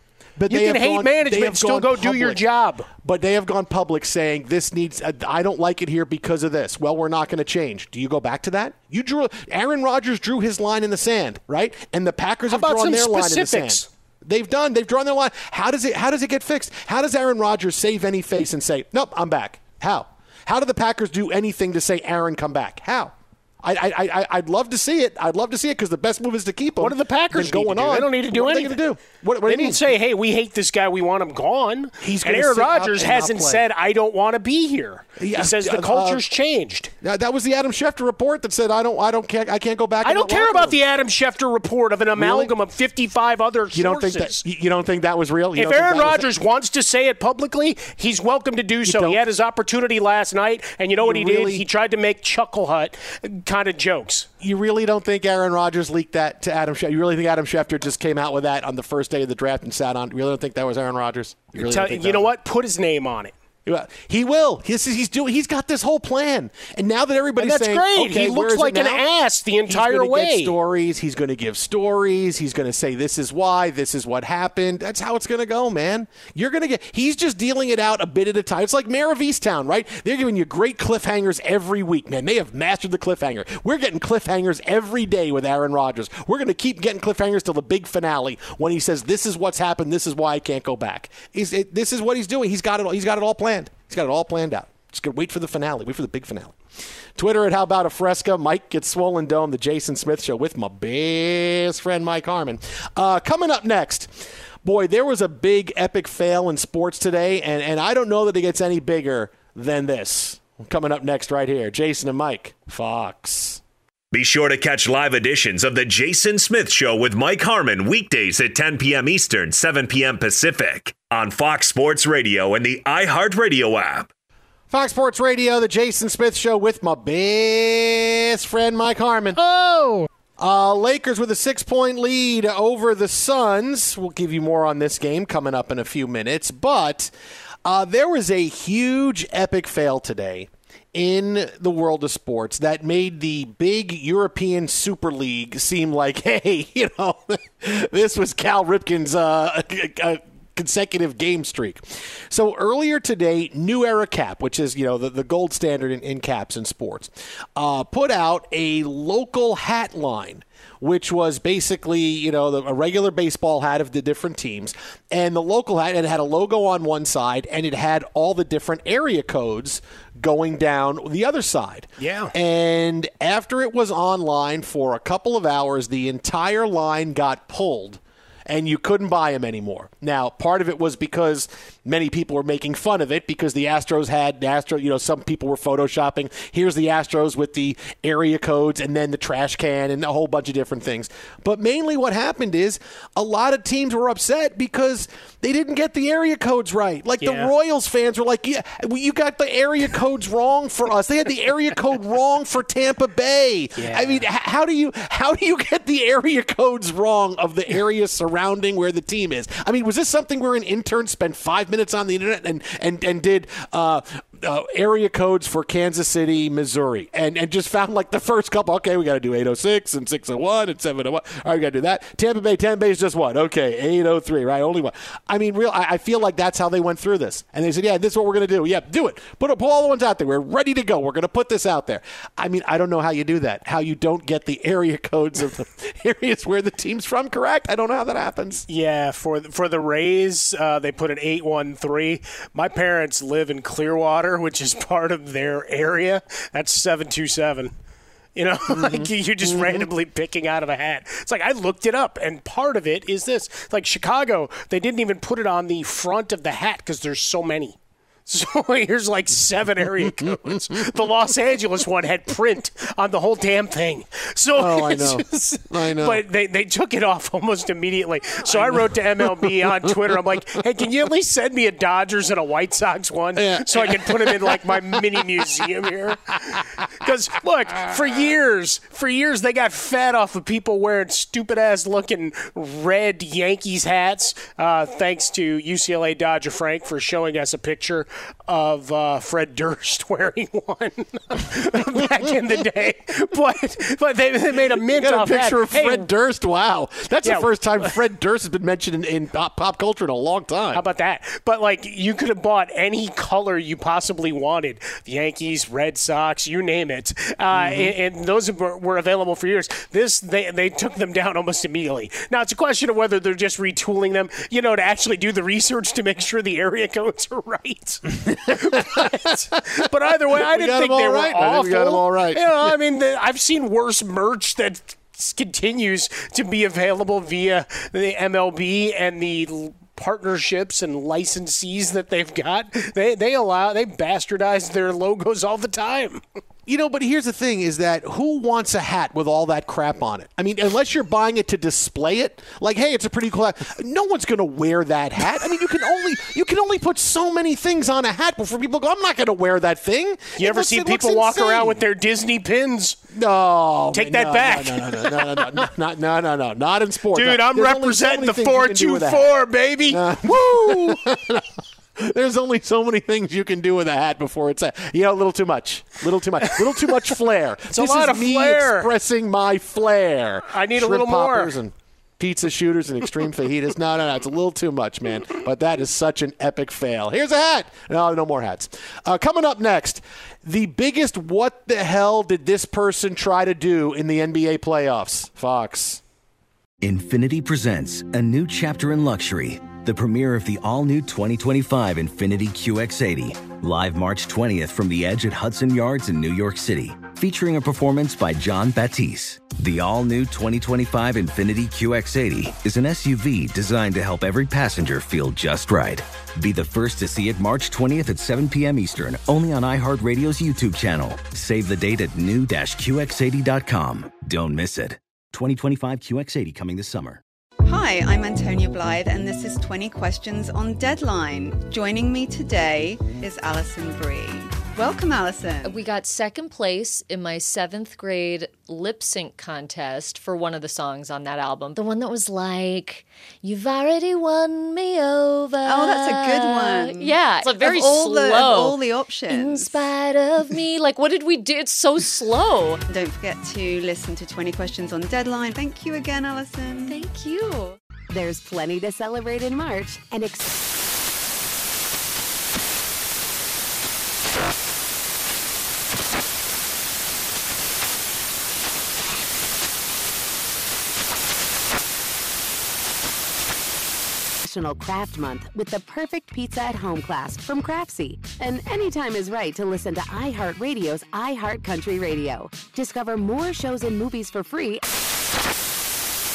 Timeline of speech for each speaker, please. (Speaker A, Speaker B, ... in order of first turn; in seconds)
Speaker A: 0.4-29.8, 32.0-33.6, 35.2-36.2, 37.0-40.8, 42.2-42.5, 43.7-46.3, 48.9-49.2, 51.0-51.6, 54.4-62.3, 63.7-69.0, 69.7-96.6, 97.2-104.1, 104.6-113.6, 124.7-129.4, 130.4-137.1, 137.7-238.7, 248.7-249.9, 260.0-260.6, 264.6-266.2, 268.4-270.2, 273.4-275.4, 294.7-300.8, 307.5-307.9, 318.2-319.2, 320.3-322.7, 336.7-351.8, 353.1-359.3, 359.9-386.0
Speaker B: 0.5-2.9, 12.5-13.9, 26.8-28.8, 29.5-36.9, 40.0-44.4, 45.6-54.3, 61.5-63.3, 67.4-70.5, 129.4-130.1, 172.0-172.3, 197.2-197.5, 203.8-204.2, 238.7-247.7, 248.4-296.1, 297.2-297.9, 300.7-336.2, 350.4-353.0, 353.9-355.6, 357.1-360.9, 366.5-366.9, 367.7-368.9, 370.5-371.6
Speaker C: 114.1-124.1
Speaker D: 386.8-417.2
Speaker E: 417.6-425.8, 435.6-439.8, 442.9-447.8
Speaker F: 425.6-442.8, 446.9-447.5
Speaker G: 448.1-450.5, 464.4-474.8